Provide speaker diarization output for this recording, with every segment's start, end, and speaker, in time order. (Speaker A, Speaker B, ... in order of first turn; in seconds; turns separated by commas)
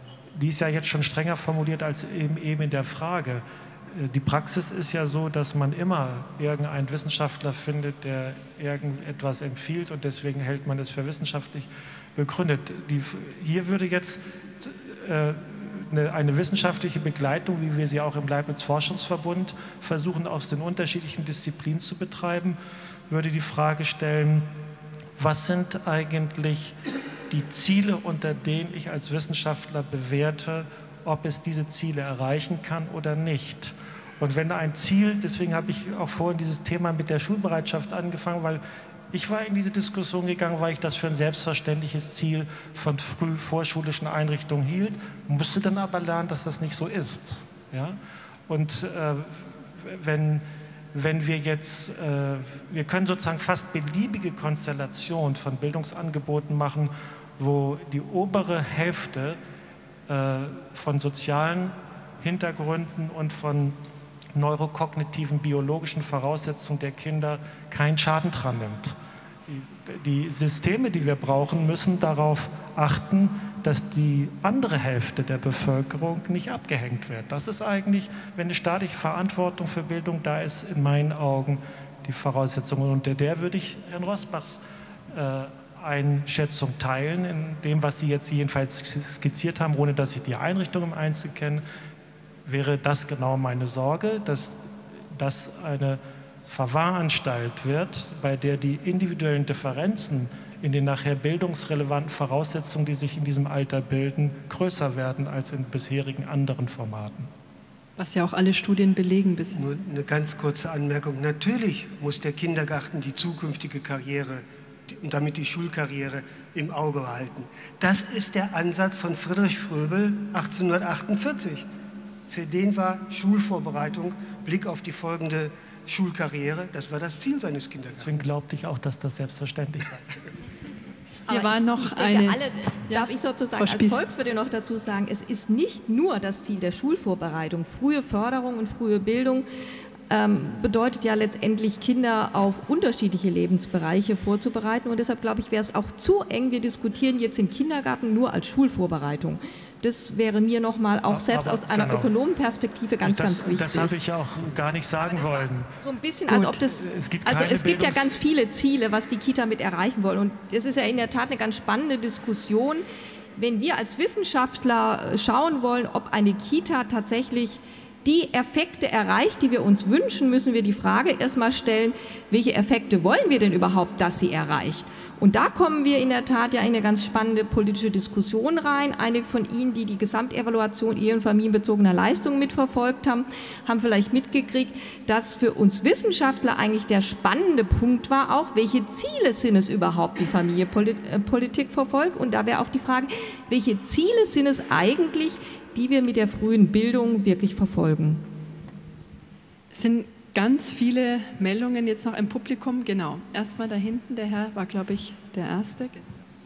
Speaker A: 0.3-22.6, Speaker A: 23.1-24.5, Speaker A: 25.2-26.7, Speaker A: 27.3-59.4, Speaker A: 60.1-63.8, Speaker A: 64.3-69.0, Speaker A: 69.5-84.6, Speaker A: 85.1-91.6, Speaker A: 92.5-94.6, Speaker A: 95.1-107.3, Speaker B: 108.0-109.6, Speaker C: 109.5-121.7, Speaker C: 122.3-128.3, Speaker A: 128.0-130.2, Speaker B: 131.3-134.0, Speaker D: 131.3-139.5, Speaker D: 140.1-154.0, Speaker A: 151.1-152.1, Speaker A: 153.0-155.7, Speaker D: 155.1-162.8, Speaker A: 156.3-158.2, Speaker D: 163.4-198.2, Speaker B: 199.7-206.0